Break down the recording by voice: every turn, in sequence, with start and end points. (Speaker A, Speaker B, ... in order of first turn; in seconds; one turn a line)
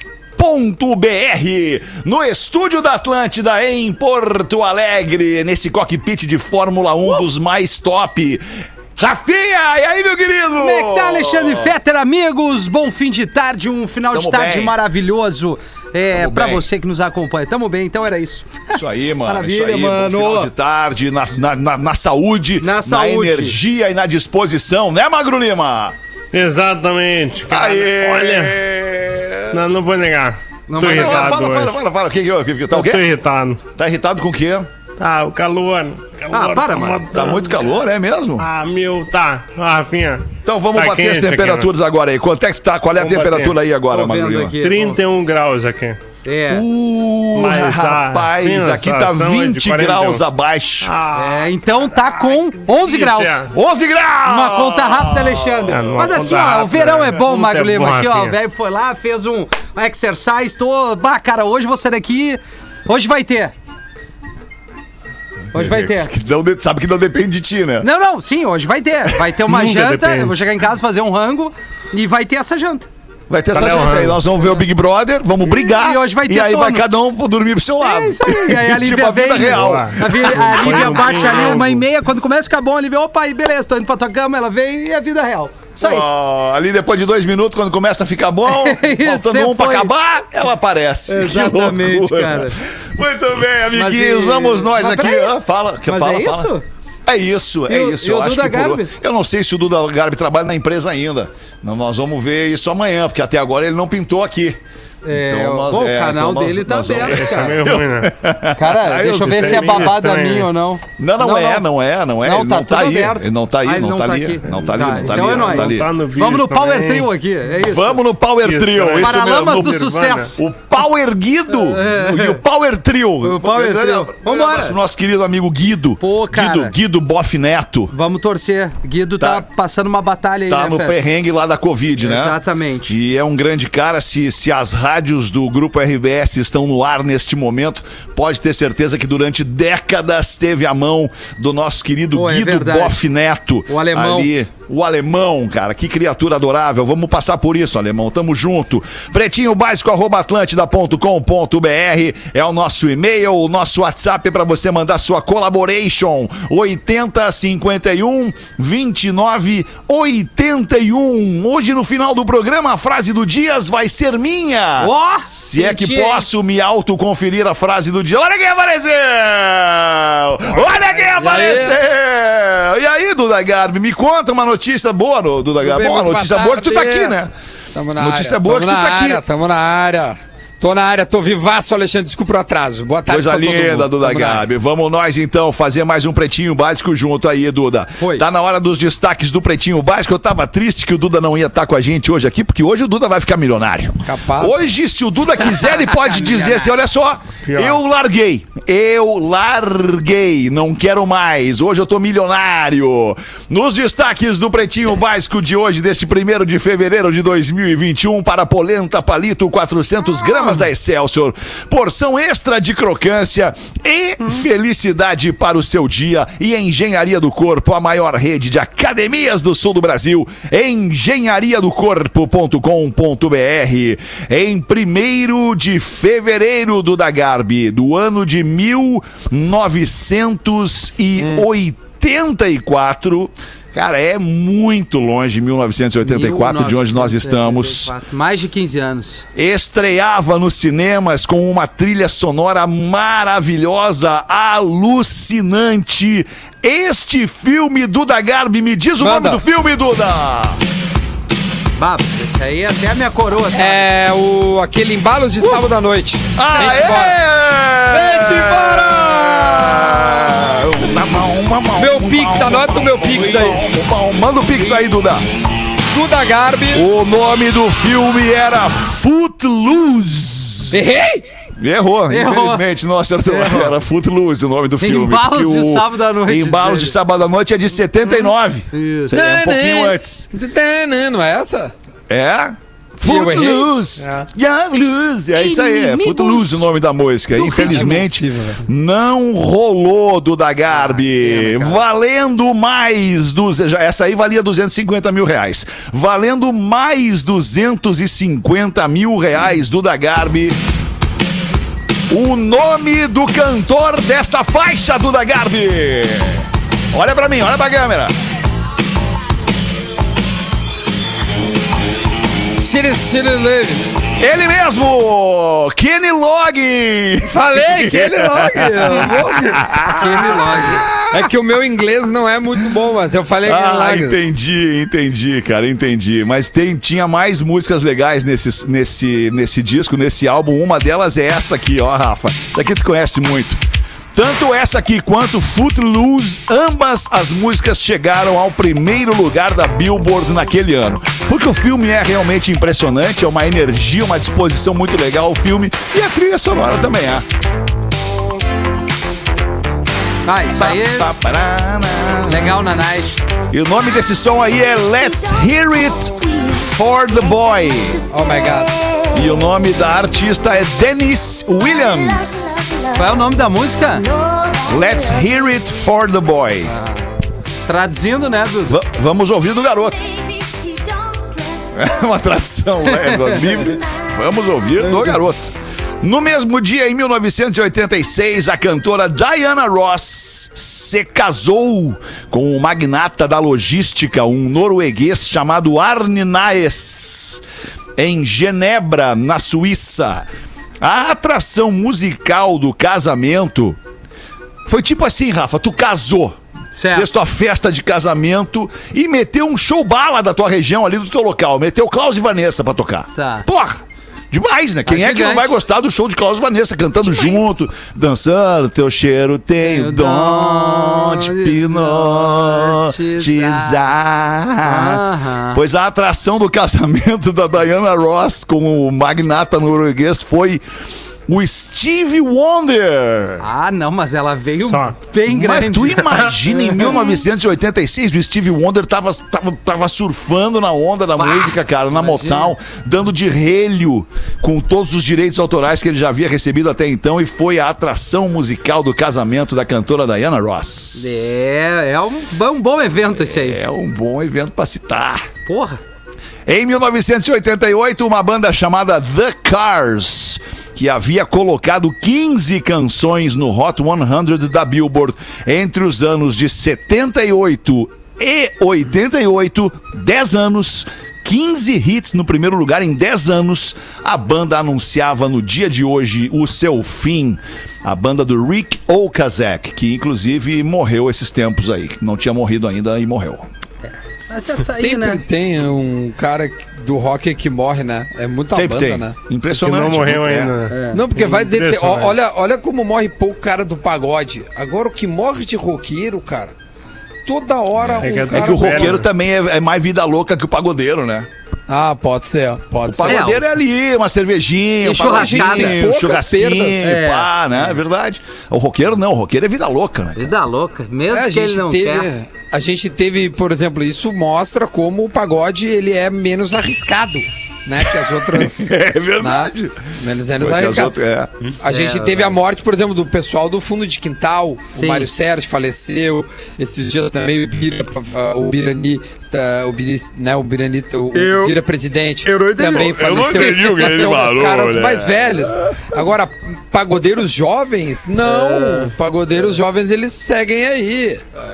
Speaker A: 0.3-8.4
Speaker A: 9.0-11.7
Speaker B: 10.6-18.7
Speaker A: 14.1-14.8
Speaker A: 16.1-16.6
Speaker A: 18.7-25.9
Speaker B: 19.2-20.5
Speaker B: 22.6-23.6
Speaker C: 26.3-28.6
Speaker A: 27.5-29.6
Speaker C: 29.5-31.7
Speaker B: 30.7-31.3
Speaker A: 30.8-33.1
Speaker C: 32.7-33.6
Speaker A: 33.8-34.7
Speaker C: 35.0-37.6
Speaker B: 36.3-37.3
Speaker A: 37.1-38.5
Speaker C: 38.4-41.7
Speaker A: 40.4-44.5
Speaker C: 43.0-43.5
Speaker B: 43.9-45.0
Speaker C: 44.6-46.0
Speaker B: 46.2-46.6
Speaker A: 46.5-50.9
Speaker C: 47.3-50.2
Speaker C: 50.8-53.5
Speaker B: 51.1-53.4
Speaker A: 53.5-55.9
Speaker B: 54.2-63.5
Speaker C: 55.7-58.4
Speaker A: 65.5-67.9
Speaker B: 65.5-66.1
Speaker B: 67.8-72.9
Speaker C: 69.4-70.3
Speaker A: 73.3-81.5
Speaker C: 73.5-74.2
Speaker B: 75.4-76.8
Speaker B: 77.8-86.0
Speaker C: 79.5-81.8
Speaker A: 85.8-96.5
Speaker B: 88.5-89.9
Speaker B: 91.1-92.6
Speaker B: 93.7-96.6
Speaker A: 97.0-104.6
Speaker B: 97.7-98.9
Speaker B: 105.0-107.6
Speaker A: 105.1-109.9
Speaker C: 107.0-108.1
Speaker B: 108.5-111.7
Speaker C: 109.2-110.5
Speaker A: 111.0-115.9
Speaker B: 112.2-118.0
Speaker C: 115.0-117.1
Speaker A: 117.6-119.8
Speaker C: 118.4-120.3
Speaker B: 119.0-120.4
Speaker A: 120.3-127.9
Speaker B: 121.5-122.4
Speaker B: 123.2-124.8
Speaker B: 126.0-126.8
Speaker B: 127.9-131.0
Speaker A: 129.2-129.4
Speaker A: 130.5-132.4
Speaker B: 132.0-132.9
Speaker A: 132.9-177.3
Speaker B: 142.1-143.0
Speaker B: 143.7-144.3
Speaker B: 164.8-166.2
Speaker D: 171.0-171.8
Speaker D: 175.6-177.2
Speaker D: 177.7-184.4
Speaker A: 177.9-179.2
Speaker A: 183.1-237.9
Speaker B: 188.0-188.2
Speaker D: 194.0-194.5
Speaker B: 195.6-196.7
Speaker C: 197.5-197.8
Speaker B: 236.0-239.2
Speaker A: 239.3-250.6
Speaker D: 249.0-249.4
Speaker B: 251.8-253.9
Speaker D: 253.5-257.2
Speaker A: 256.3-265.2
Speaker D: 257.9-260.3
Speaker D: 261.8-263.6
Speaker D: 265.9-266.8
Speaker A: 266.7-270.8
Speaker D: 270.7-271.2
Speaker A: 271.6-280.3
Speaker B: 272.1-272.6
Speaker B: 273.2-273.8
Speaker B: 274.8-276.9
Speaker B: 278.7-279.2
Speaker D: 279.1-281.7
Speaker A: 282.1-300.6
Speaker D: 283.0-283.7
Speaker C: 284.0-284.3
Speaker B: 285.8-286.3
Speaker B: 287.4-288.0
Speaker D: 287.4-288.6
Speaker B: 290.7-291.8
Speaker A: 302.1-308.1
Speaker D: 312.5-314.1
Speaker A: 314.2-321.3
Speaker D: 317.3-319.6
Speaker B: 319.9-320.9
Speaker D: 321.1-324.3
Speaker A: 323.4-333.6
Speaker A: 334.1-347.2
Speaker B: 350.2-351.1
Speaker A: 350.5-352.6
Speaker B: 352.2-353.2
Speaker A: 353.5-358.1
Speaker D: 358.1-358.8
Speaker A: 359.1-362.9
Speaker B: 362.9-364.2
Speaker A: 364.6-366.7
Speaker B: 366.6-367.0
Speaker B: 367.6-368.8
Speaker A: 368.7-370.6
Speaker A: 371.7-387.4
Speaker B: 372.9-373.4
Speaker A: 388.0-390.3
Speaker A: 390.8-393.8
Speaker A: 394.6-396.4
Speaker B: 396.8-397.1
Speaker A: 396.9-420.6
Speaker B: 403.1-403.5
Speaker B: 404.9-405.5
Speaker B: 407.1-407.4
Speaker B: 409.6-413.9
Speaker B: 414.6-415.6
Speaker A: 421.3-423.4
Speaker B: 423.4-427.0
Speaker C: 424.6-424.9
Speaker A: 425.2-441.4
Speaker B: 431.1-432.5
Speaker B: 440.9-443.6
Speaker A: 443.1-445.3
Speaker B: 445.4-445.8
Speaker A: 446.5-473.5
Speaker B: 473.9-475.2
Speaker D: 474.6-479.1
Speaker A: 478.5-480.5
Speaker C: 479.5-482.2
Speaker B: 480.7-481.0
Speaker D: 480.9-486.5
Speaker D: 487.2-488.9
Speaker A: 487.8-491.3
Speaker C: 488.0-489.1
Speaker D: 491.7-493.4
Speaker A: 492.8-500.4
Speaker B: 493.1-493.4
Speaker B: 494.8-495.8
Speaker D: 494.9-497.0
Speaker B: 496.8-497.3
Speaker B: 500.1-502.1
Speaker D: 501.1-510.9
Speaker A: 508.2-511.3
Speaker D: 511.6-531.2
Speaker B: 511.7-512.4
Speaker B: 514.7-515.1
Speaker B: 521.1-521.6
Speaker B: 522.2-523.8
Speaker A: 522.6-525.5
Speaker B: 528.2-528.9